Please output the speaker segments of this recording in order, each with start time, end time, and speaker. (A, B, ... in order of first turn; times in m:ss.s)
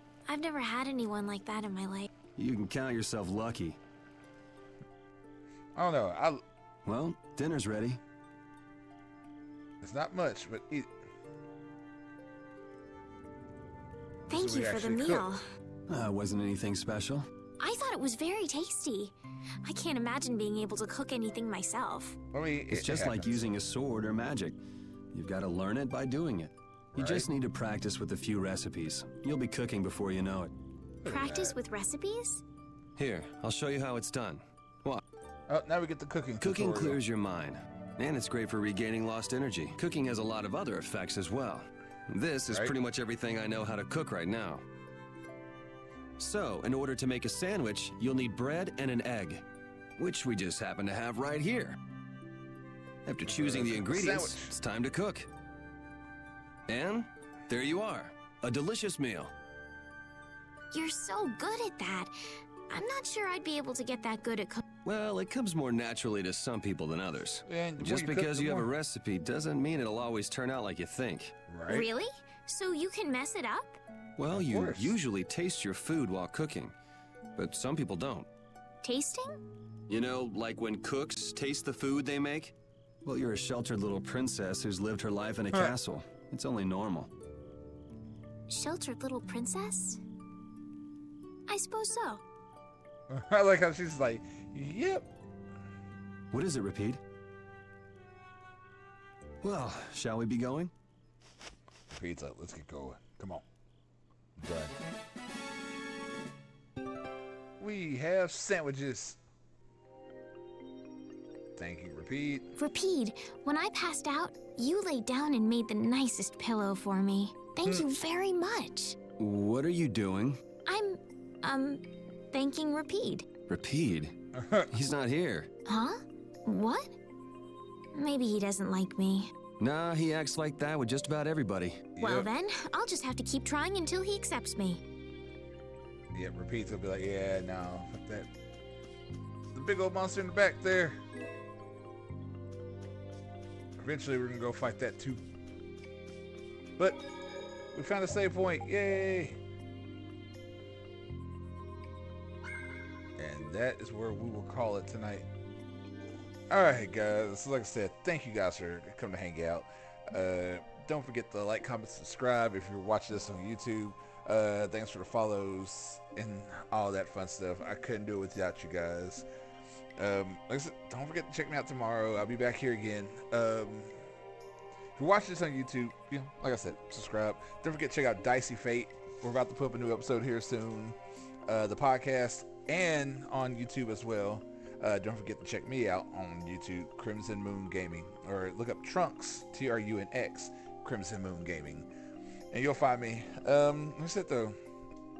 0:00.3-0:02.1 A
0:02.4-0:03.8 B
0:05.8-0:06.4 C
0:06.8-0:08.0 B
0:09.8-0:10.9 C
0:14.3-0:15.3 C
0:14.3-0:15.4 A
0:15.9-0:17.3 B
0:17.6-0:22.2 A
0:22.3-0:23.5 C
0:22.7-0:24.6 B
0:25.1-0:30.5 B
0:27.0-0:27.3 C
0:31.0-0:31.6 C
0:31.1-0:32.4 A
0:33.0-0:35.0 B
0:35.5-0:37.0 C
0:36.4-0:44.6 B
0:46.2-0:49.4 B
0:50.0-0:51.8 B
0:53.1-0:55.3 B
0:53.3-0:54.5 C
0:56.7-0:59.3 B
1:00.7-1:02.1 A
1:02.7-1:04.6 A
1:04.8-1:11.3 B
1:07.5-1:08.7 C
1:11.5-1:11.9 C
1:11.7-1:13.8 A
1:14.2-1:16.7 B
1:14.3-1:15.0 C
1:17.4-1:18.3 B
1:18.8-1:19.4 A
1:19.9-1:22.5 B
1:23.0-1:27.1 B
1:28.5-1:30.0 A
1:31.5-1:32.2 A
1:33.1-1:35.1 C
1:36.3-1:37.0 B
1:39.4-1:40.7 B
1:41.9-1:43.4 C
1:44.4-1:44.8 C
1:47.6-1:49.2 C
1:51.6-1:52.5 C
1:52.6-1:59.0 A
1:59.2-2:00.4 B
2:00.7-2:03.3 A
2:03.5-2:04.2 B
2:04.3-2:04.9 C
2:04.7-2:05.5 B
2:05.7-2:06.9 A
2:07.9-2:09.3 A
2:09.6-2:11.8 B
2:12.0-2:12.3 C
2:12.0-2:14.8 A
2:16.1-2:18.3 C
2:19.5-2:21.0 C
2:23.8-2:25.2 C
2:27.7-2:29.4 C
2:33.2-2:35.3 C
2:36.5-2:49.3 C
2:50.0-2:54.0 C
2:55.0-3:11.9 C
3:12.5-3:14.6 C